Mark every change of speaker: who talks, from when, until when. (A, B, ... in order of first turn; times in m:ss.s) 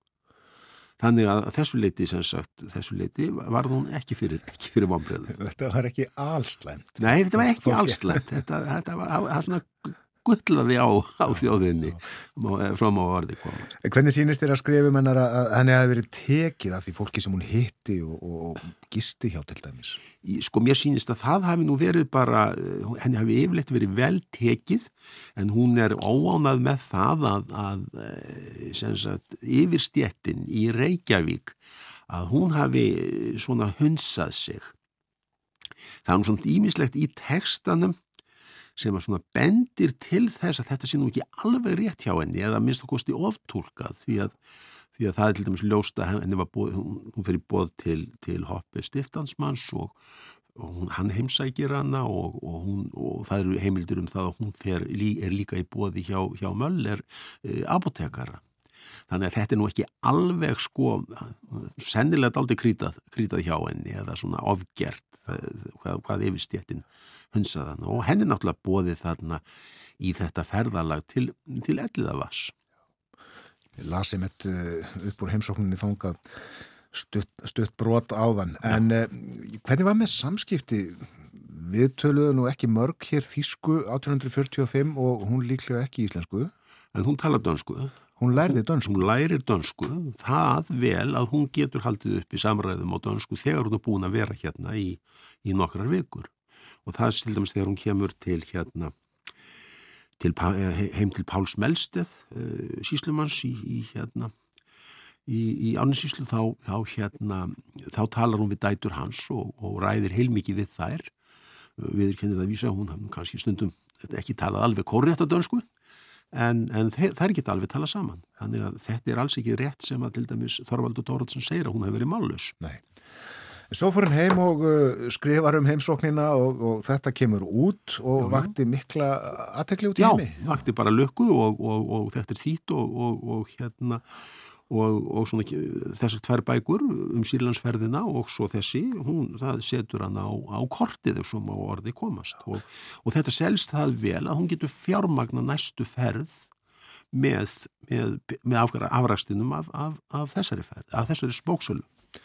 0:01.0-0:05.3 A
0:05.3-0:08.2 B
0:07.0-0:13.8 A
0:13.8-0:20.0 B
0:20.2-0:31.6 A
0:32.1-0:34.7 A
0:36.1-0:38.0 A
0:38.8-0:44.4 A
0:45.0-0:50.0 A
0:50.6-0:58.4 A
0:59.1-1:09.4 A
1:10.0-1:12.6 A
1:13.8-1:16.3 B
1:16.9-1:26.5 B
1:26.9-1:28.0 A
1:28.2-1:29.0 B
1:28.5-1:36.3 A
1:36.8-1:38.9 A
1:40.2-1:44.3 A
1:45.3-1:51.1 A
1:51.8-1:55.6 A
1:56.3-2:02.6 A
2:03.7-2:10.6 B
2:08.2-2:08.5 A
2:10.0-2:14.0 A
2:14.7-2:26.5 A
2:27.1-2:31.9 A